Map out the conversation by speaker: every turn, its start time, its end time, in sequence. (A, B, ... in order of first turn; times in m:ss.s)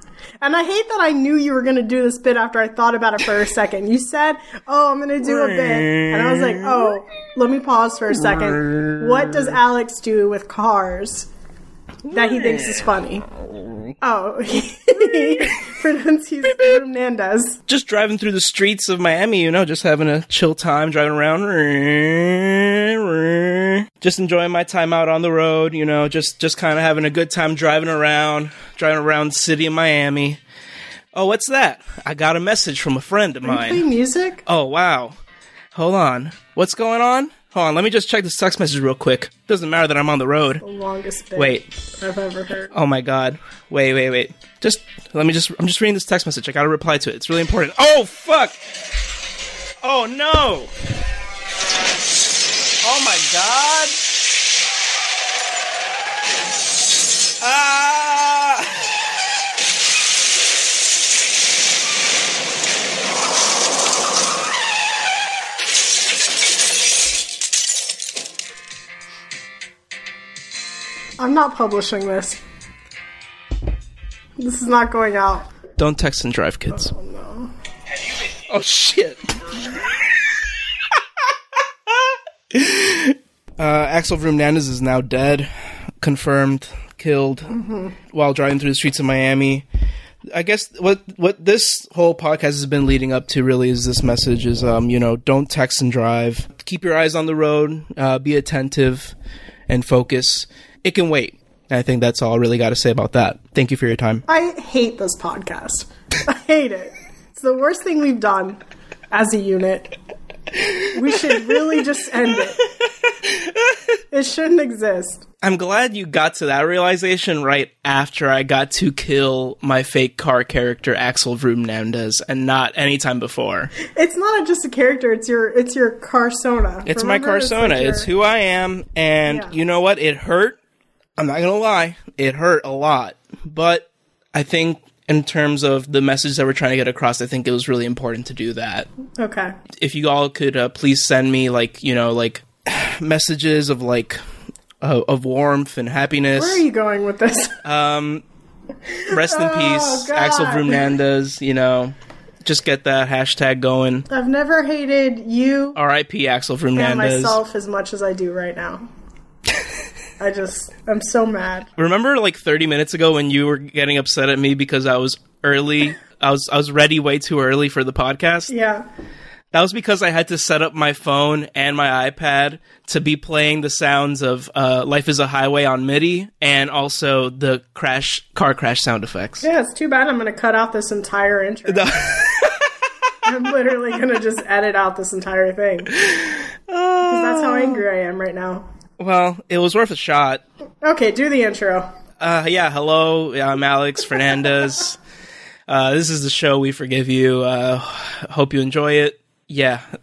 0:00.4-0:11.3 A
0:05.2-0:06.9 B
0:08.2-0:09.3 B
0:12.1-0:12.8 B
0:12.1-0:13.3 A
0:14.0-0:17.6 A
0:17.7-0:30.4 B
0:31.2-0:33.8 B
0:33.4-0:34.4 A
0:34.5-0:35.2 B
0:35.7-0:40.6 B
0:40.6-0:42.7 A
0:41.4-0:41.7 B
0:42.7-0:48.6 B
0:49.8-0:50.7 B
0:52.8-0:54.0 B
0:57.4-0:58.9 B
1:11.2-1:12.4 A
1:14.4-1:15.5 A
1:15.8-1:16.9 B
1:16.8-1:17.5 A
1:18.5-1:19.2 B
1:22.5-1:25.5 B
1:26.0-1:27.6 B
1:27.5-1:27.9 A
1:28.1-1:29.6 B
1:30.3-1:39.1 B
1:39.7-1:44.2 B
1:44.3-1:48.6 A
1:49.1-1:50.0 A
1:50.9-1:52.6 A
1:53.2-1:53.8 B
1:54.1-1:55.2 A
1:55.4-2:03.7 B
2:03.9-2:08.1 A
2:06.9-2:10.6 B
2:09.3-2:09.5 A
2:11.2-2:18.9 B
2:19.2-2:19.6 A
2:19.8-2:24.2 B
2:24.8-2:26.6 B
2:26.4-2:27.6 A
2:27.6-2:28.2 B
2:28.9-2:31.0 A
2:29.1-2:34.0 B
2:34.1-2:35.8 A
2:35.8-2:37.4 B
2:36.8-2:38.9 A
2:40.2-2:41.7 A
2:41.8-2:48.5 B
2:48.5-2:48.8 A
2:49.5-2:59.5 B
2:59.4-3:02.1 A
3:01.7-3:02.7 B
3:03.2-3:05.9 A
3:06.0-3:07.8 B
3:07.0-3:08.7 A
3:09.0-3:10.4 B
3:10.8-3:11.9 A
3:12.2-3:15.0 B
3:15.7-3:19.8 B